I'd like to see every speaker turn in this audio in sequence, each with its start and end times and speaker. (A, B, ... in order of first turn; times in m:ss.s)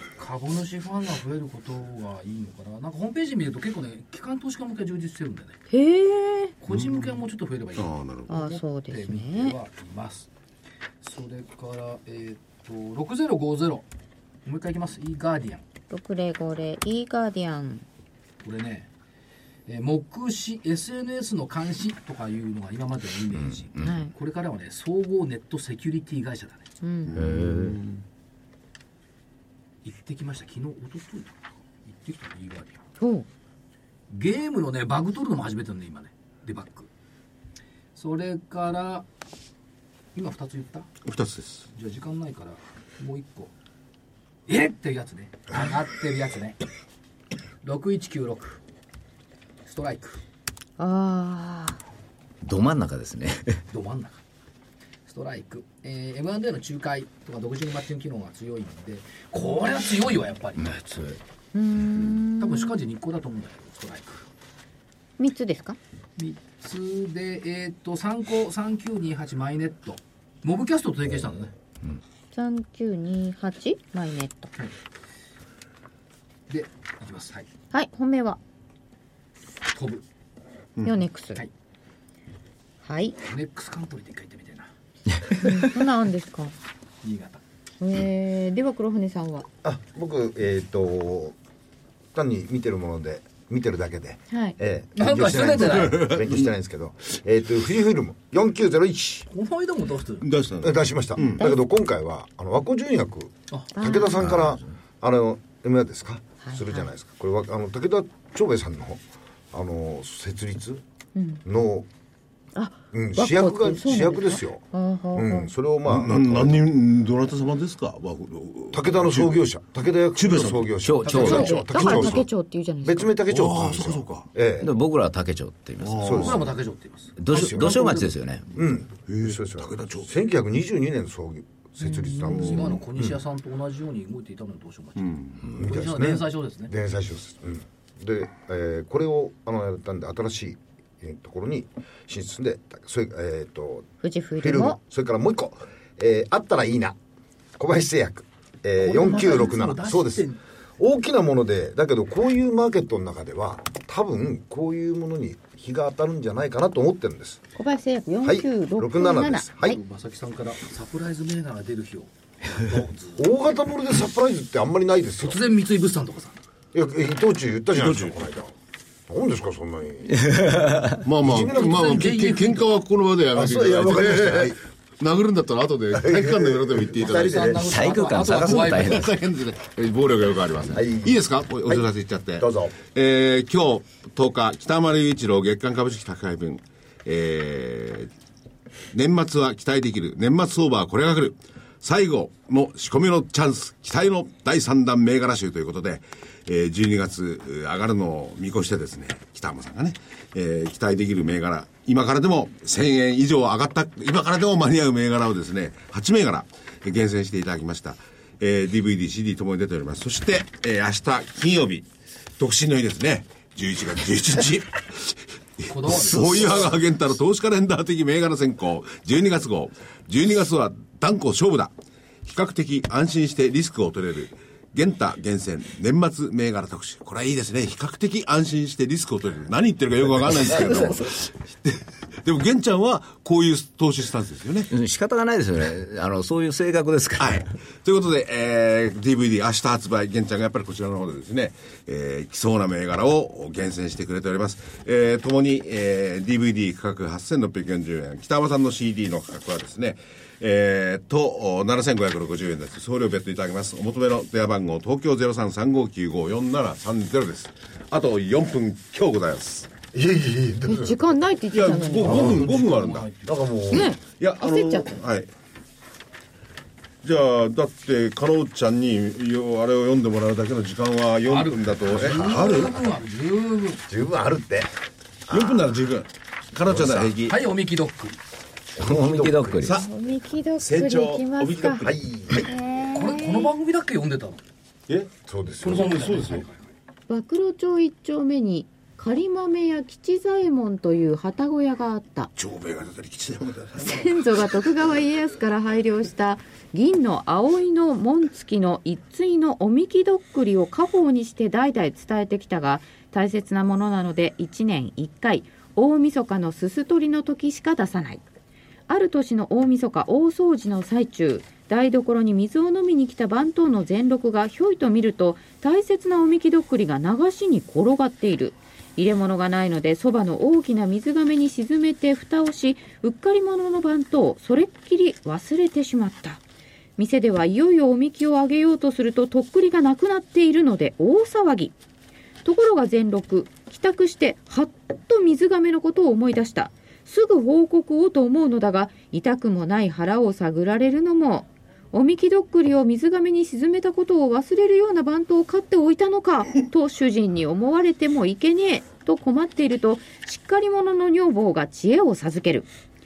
0:00.2-0:05.6 A
0:05.7-0:06.6 B
0:06.6-0:10.3 A
0:07.8-0:08.4 C
0:08.3-0:09.6 B
0:11.0-0:13.9 A
0:14.4-0:15.6 A
0:15.9-0:17.8 B
0:18.4-0:18.9 A
0:19.7-0:26.7 A
0:23.5-0:24.1 D
0:23.8-0:24.1 B
0:26.8-0:27.2 B
0:27.1-0:28.0 C
0:27.2-0:27.8 D
0:29.8-0:32.8 A
0:33.0-0:33.3 B
0:34.1-0:36.9 A
0:38.0-0:39.1 A
0:40.1-0:40.9 A
0:41.0-0:41.6 C
0:41.7-0:43.5 A
0:44.5-0:46.6 A
0:47.6-0:48.6 A
0:49.7-0:50.2 A
0:50.8-0:51.8 B
0:52.4-0:53.6 D
0:53.7-0:54.2 A
0:55.1-1:00.8 A
1:00.6-1:01.2 D
1:01.5-1:02.8 B
1:02.4-1:04.3 A
1:05.2-1:05.8 B
1:06.2-1:11.5 A
1:12.3-1:14.5 B
1:16.5-1:17.5 A
1:17.7-1:18.4 B
1:19.7-1:20.0 A
1:20.8-1:21.4 B
1:22.8-1:23.2 B
1:23.2-1:24.7 A
1:25.4-1:26.6 B
1:27.0-1:27.4 A
1:27.8-1:29.5 B
1:29.6-1:31.4 E
1:32.1-1:39.3 E
1:34.3-1:34.6 B
1:35.0-1:36.1 A
1:35.9-1:36.4 C
1:39.3-1:40.3 A
1:40.2-1:41.4 C
1:40.6-1:50.8 E
1:43.5-1:43.8 A
1:43.8-1:44.4 B
1:46.4-1:46.9 B
1:51.2-1:51.4 B
1:51.4-1:51.9 E
1:52.6-1:55.5 B
1:52.9-1:56.6 E
1:55.9-1:59.4 C
1:58.7-2:02.3 E
2:00.2-2:00.7 C
2:00.8-2:01.6 D
2:01.0-2:02.0 A
2:01.2-2:03.2 B
2:02.8-2:04.7 E
2:03.3-2:04.3 C
2:04.6-2:06.2 D
2:05.8-2:06.4 C
2:06.0-2:06.5 E
2:06.2-2:08.6 A
2:07.2-2:08.4 D
2:07.3-2:07.7 E
2:08.5-2:13.1 E
2:09.1-2:10.1 C
2:11.9-2:12.4 B
2:12.2-2:12.7 C
2:12.2-2:16.7 A
2:15.0-2:15.5 C
2:15.5-2:27.0 E
2:24.0-2:24.8 B
2:27.6-2:30.3 E
2:28.8-2:30.4 A
2:30.8-2:37.4 E
2:37.6-2:39.8 B
2:38.2-2:39.8 E
2:39.6-2:43.3 A
2:43.2-2:45.4 E
2:45.2-2:46.4 A
2:46.7-2:48.5 E
2:47.7-2:48.2 C
2:49.1-2:50.4 E
2:50.1-2:51.0 D
2:51.0-2:57.6 C
2:51.2-2:52.0 E
2:51.5-2:52.8 A
2:53.3-2:54.6 E
2:55.9-2:57.6 E
2:57.0-2:59.0 A
2:57.7-2:59.1 D
2:58.3-3:08.1 C
3:00.7-3:01.9 E
3:02.4-3:02.8 E
3:08.9-3:31.9 C
3:32.4-3:41.7 C
3:35.7-3:36.8 A
3:42.2-3:54.7 C
3:50.3-3:51.1 D
3:54.7-3:57.4 D
3:57.2-4:19.7 C
4:19.9-4:21.0 E
4:20.7-4:22.4 B
4:21.5-4:23.1 C
4:22.0-4:22.5 E
4:22.1-4:23.4 A
4:23.2-4:24.0 E
4:23.7-4:24.9 B
4:23.8-4:25.3 C
4:27.0-4:32.8 C
4:31.3-4:33.8 A
4:33.9-4:34.7 E
4:35.3-4:35.7 E
4:35.3-4:37.4 C
4:36.7-4:37.2 E
4:37.2-4:38.2 A
4:38.8-4:39.7 E
4:38.8-4:39.8 D
4:39.6-4:39.9 C
4:39.8-4:41.9 B
4:40.6-4:42.5 C
4:41.8-4:42.5 E
4:42.4-4:43.5 B
4:42.9-4:44.4 A
4:44.9-4:45.1 C
4:45.2-4:46.0 E
4:45.6-4:46.7 A
4:45.7-4:46.4 C
4:47.1-4:52.3 B
4:52.4-4:54.1 C
4:53.8-5:08.2 B
5:08.9-5:26.4 B
5:27.0-5:31.8 B
5:32.4-5:52.7 B